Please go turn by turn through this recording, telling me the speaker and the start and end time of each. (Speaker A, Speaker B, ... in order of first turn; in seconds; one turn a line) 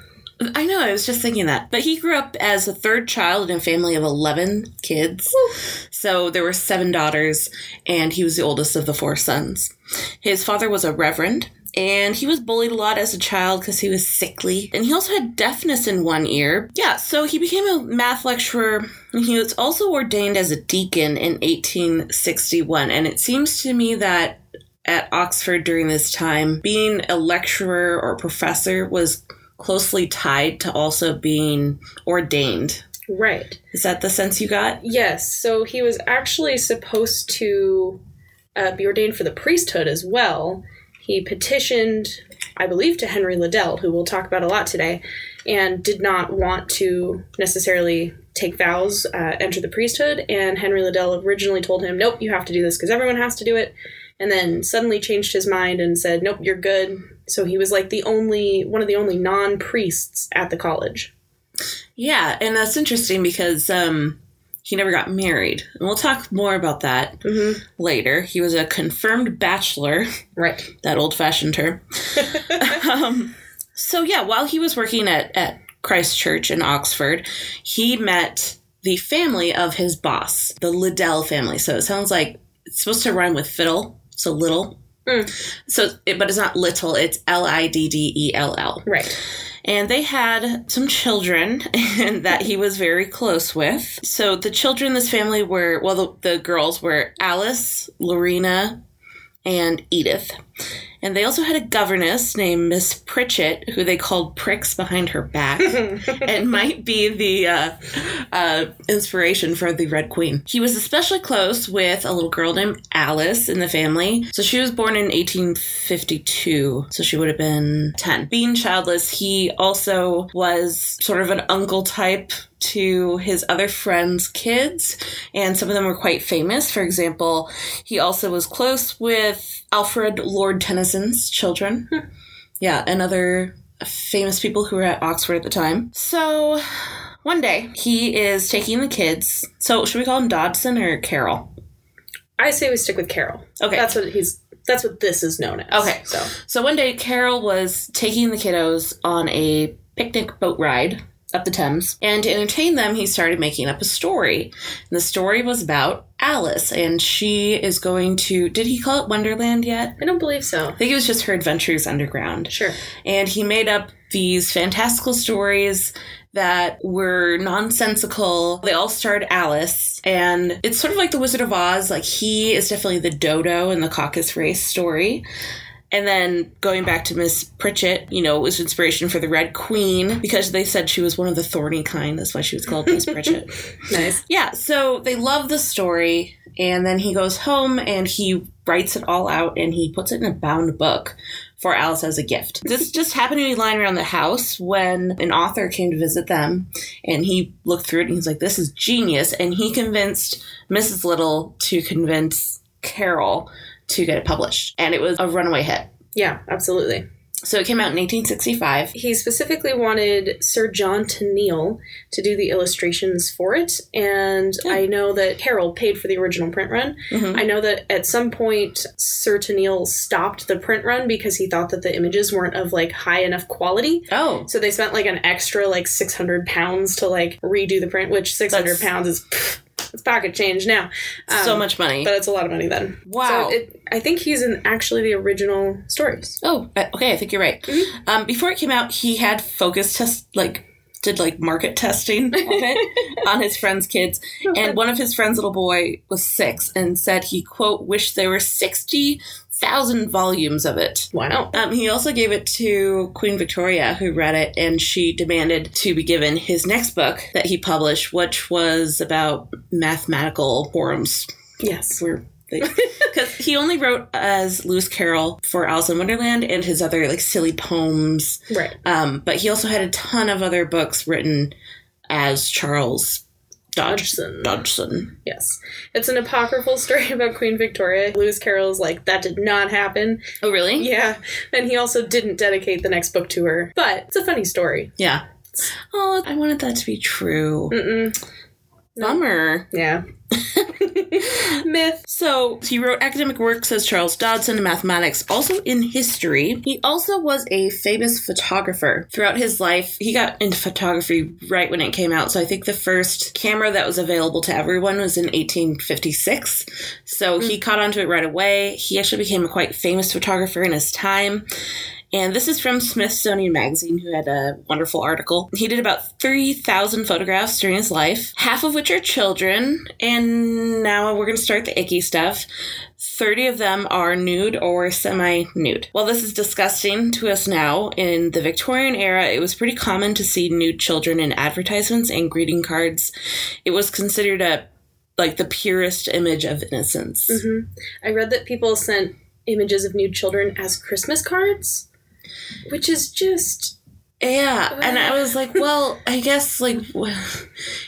Speaker A: 0.4-32.8
Speaker B: 33.1-33.6
Speaker A: 33.7-34.8
Speaker B: 34.8-38.0
Speaker B: 38.5-61.1
Speaker A: 62.0-70.1
Speaker B: 67.2-67.6
Speaker B: 70.4-70.7
Speaker A: 70.8-84.8
Speaker B: 85.0-85.3
Speaker A: 85.7-88.9
Speaker B: 88.8-89.1
Speaker A: 89.6-98.8
Speaker A: 99.4-100.4
Speaker A: 101.0-131.9
Speaker A: 132.6-141.5
Speaker B: 142.4-146.3
Speaker A: 143.6-143.9
Speaker A: 145.7-160.0
Speaker B: 160.0-160.8
Speaker A: 160.8-175.2
Speaker B: 162.5-162.8
Speaker A: 175.9-183.5
Speaker B: 183.9-184.2
Speaker A: 184.2-205.9
Speaker B: 206.1-207.0
Speaker A: 207.4-208.9
Speaker B: 208.9-236.4
Speaker A: 217.1-217.4
Speaker A: 224.1-224.5
Speaker A: 228.5-228.9
Speaker A: 231.3-232.1
Speaker A: 233.1-233.6
Speaker A: 236.4-261.3
Speaker B: 242.4-242.9
Speaker B: 251.1-251.6
Speaker B: 261.6-262.0
Speaker A: 261.9-271.5
Speaker B: 262.6-263.1
Speaker B: 268.5-268.8
Speaker A: 272.1-273.2
Speaker A: 273.7-275.1
Speaker B: 273.8-274.6
Speaker B: 275.2-284.9
Speaker A: 280.4-280.9
Speaker A: 285.0-287.8
Speaker B: 287.7-288.2
Speaker B: 288.9-290.0
Speaker A: 289.0-289.7
Speaker A: 290.3-311.4
Speaker B: 290.8-292.0
Speaker A: 312.1-322.4
Speaker A: 323.0-333.1
Speaker A: 333.6-337.4
Speaker B: 337.3-341.9
Speaker B: 342.7-343.7
Speaker A: 344.2-347.5
Speaker B: 344.7-345.6